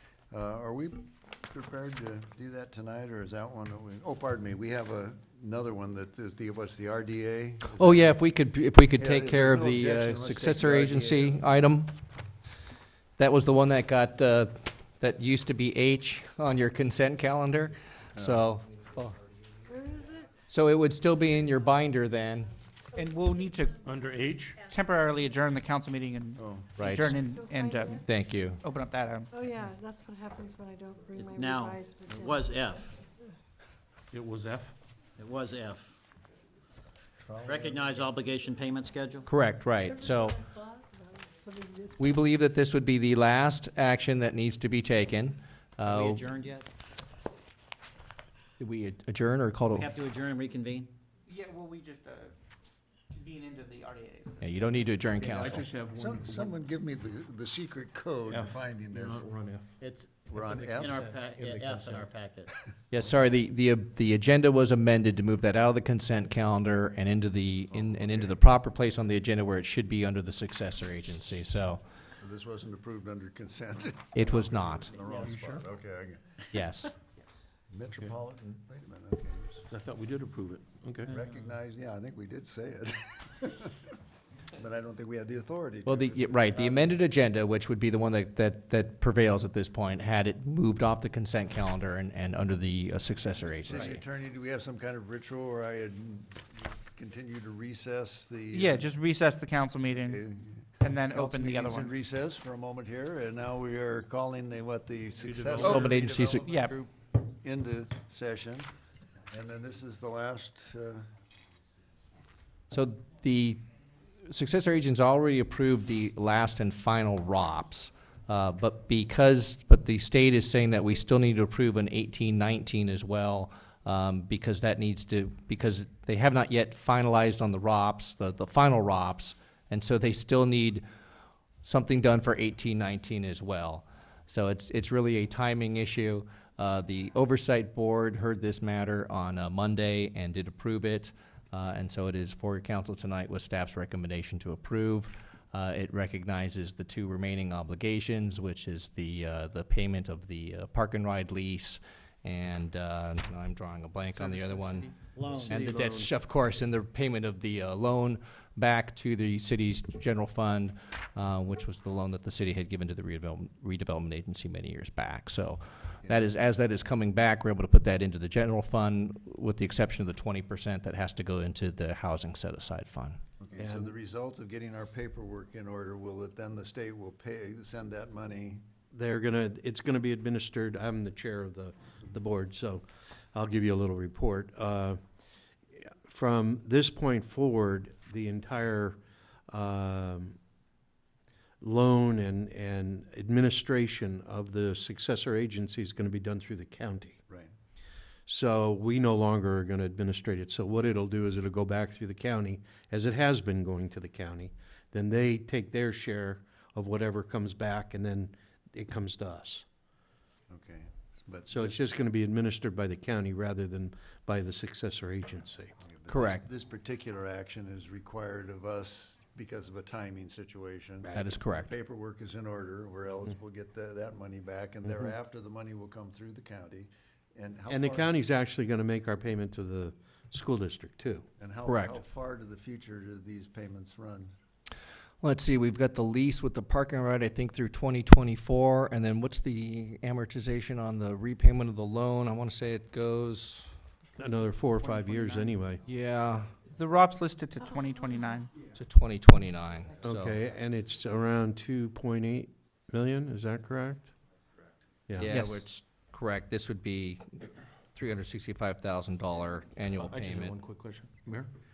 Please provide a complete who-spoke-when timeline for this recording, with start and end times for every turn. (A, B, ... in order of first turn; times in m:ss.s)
0:00.3-0:08.1 A
0:07.7-0:11.9 B
0:09.0-0:11.4 A
0:13.2-0:19.2 B
0:18.1-0:18.4 A
0:19.7-0:20.2 C
0:20.5-0:22.5 B
0:23.0-0:23.8 D
0:23.8-0:24.6 E
0:24.6-0:28.0 D
0:26.4-0:26.7 A
0:26.8-0:27.2 B
0:27.3-0:28.0 C
0:28.0-0:28.6 B
0:28.6-0:29.3 D
0:29.3-0:32.8 C
0:31.2-0:32.9 F
0:34.1-0:34.7 E
0:35.2-0:36.0 F
0:37.2-0:38.2 A
0:37.4-0:39.3 F
0:39.2-0:40.4 B
0:40.9-0:42.1 C
0:42.0-0:46.3 B
0:45.9-0:46.7 F
0:48.6-0:49.9 B
0:49.7-0:50.9 F
0:51.3-0:52.4 D
0:53.1-0:54.8 D
0:54.4-0:55.7 B
0:55.2-0:59.3 A
0:55.3-0:56.5 E
0:58.3-0:59.8 E
0:59.8-1:00.2 F
1:00.3-1:01.0 A
1:00.3-1:02.1 E
1:00.8-1:02.5 F
1:02.9-1:11.8 B
1:07.7-1:08.4 A
1:12.2-1:16.3 A
1:14.1-1:14.9 B
1:15.2-1:15.6 E
1:16.5-1:16.9 B
1:17.7-1:19.6 A
1:19.7-1:21.1 E
1:21.1-1:23.8 A
1:24.6-1:26.9 A
1:25.8-1:34.0 B
1:33.6-1:38.9 A
1:38.5-1:40.2 D
1:40.0-1:48.7 A
1:40.8-1:41.9 D
1:45.2-1:46.0 E
1:45.7-1:46.5 B
1:46.5-1:46.7 D
1:49.3-1:51.1 A
1:52.7-1:53.6 B
1:54.2-2:10.8 B
2:11.6-2:34.9 B
2:34.1-2:34.9 D
2:35.2-2:35.6 F
2:35.4-2:36.1 G
2:35.5-2:53.2 B
2:53.4-2:58.6 A
2:53.6-2:53.9 G
2:58.9-3:05.0 G
3:05.8-3:09.0 G
3:09.5-3:10.4 G
3:11.6-3:17.2 G
3:18.3-3:29.6 G
3:30.5-3:31.8 A
3:31.5-3:35.7 G
3:35.8-3:48.2 A
3:36.1-3:36.4 B
3:41.0-3:41.3 G
3:41.1-3:41.7 B
3:47.7-3:51.2 G
3:51.4-3:54.3 A
3:51.6-3:52.0 B
3:55.2-4:03.8 B
4:04.2-4:05.8 G
4:04.8-4:05.6 D
4:05.9-4:06.5 B
4:06.7-4:08.5 D
4:08.8-4:10.4 B
4:10.0-4:14.1 G
4:15.1-4:15.4 G
4:15.2-4:20.6 B
4:15.3-4:15.6 D
4:19.9-4:21.5 E